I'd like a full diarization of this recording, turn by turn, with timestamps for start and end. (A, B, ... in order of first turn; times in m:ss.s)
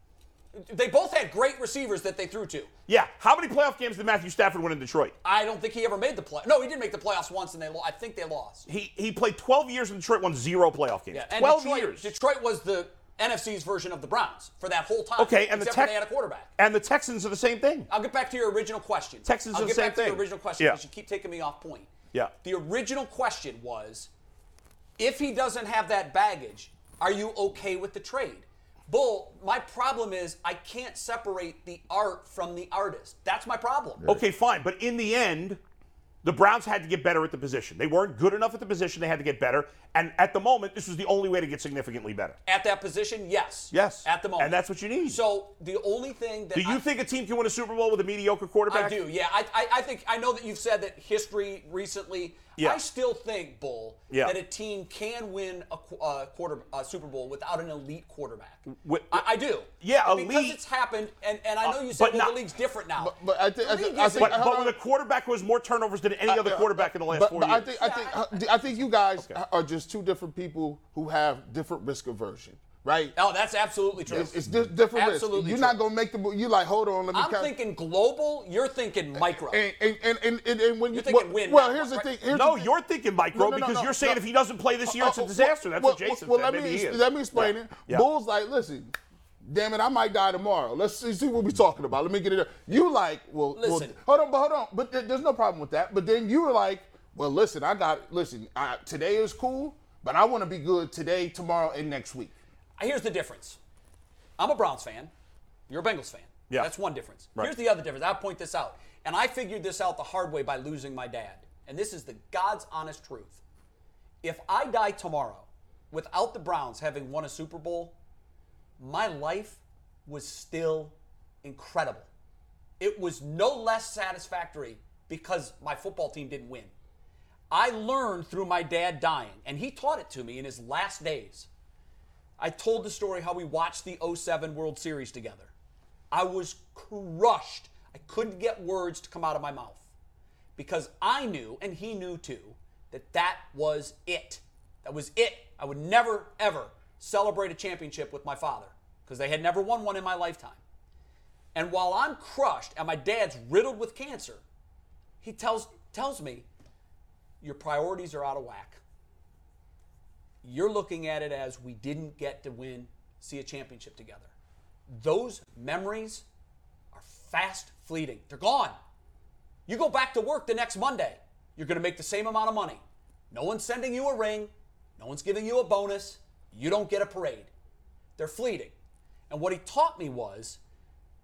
0:00.5-0:02.7 A
0:02.9-0:05.2 B
0:05.2-0:08.7 A
0:08.7-0:12.1 B
0:11.1-0:16.5 A
0:15.2-0:16.0 B
0:16.6-0:17.9 B
0:17.9-0:21.9 A
0:19.3-0:20.8 B
0:22.4-0:24.1 A
0:25.0-0:34.1 A
0:34.0-0:35.6 B
0:36.2-0:42.4 B
0:42.5-0:46.8 A
0:43.7-0:45.2 B
0:46.6-0:49.0 B
0:48.7-1:04.5 A
0:54.1-0:54.4 B
0:58.7-0:59.3 B
0:59.8-1:00.6 B
1:01.6-1:02.4 B
1:03.0-1:04.8 C
1:04.2-1:07.7 B
1:06.3-1:13.2 C
1:07.7-1:08.4 A
1:13.2-1:14.4 A
1:14.0-1:17.5 C
1:14.9-1:15.8 A
1:17.1-1:19.6 A
1:19.2-1:22.8 C
1:20.9-1:22.1 A
1:22.3-1:28.1 B
1:23.3-1:24.2 C
1:24.9-1:42.3 C
1:33.6-1:34.0 A
1:42.8-1:43.6 A
1:44.4-1:45.1 A
1:45.7-1:53.4 A
1:54.2-1:58.0 A
1:58.8-2:02.1 A
2:02.8-2:06.7 A
2:07.5-2:11.5 A
2:12.4-2:15.5 A
2:16.1-2:19.8 A
2:20.6-2:30.6 A
2:31.6-2:34.4 A
2:35.2-2:36.5 A
2:37.4-2:38.8 A
2:40.4-2:44.3 A
2:44.9-2:46.2 A
2:46.9-2:48.8 A
2:49.7-2:57.5 A
2:58.2-2:58.8 A
2:59.3-3:00.6 A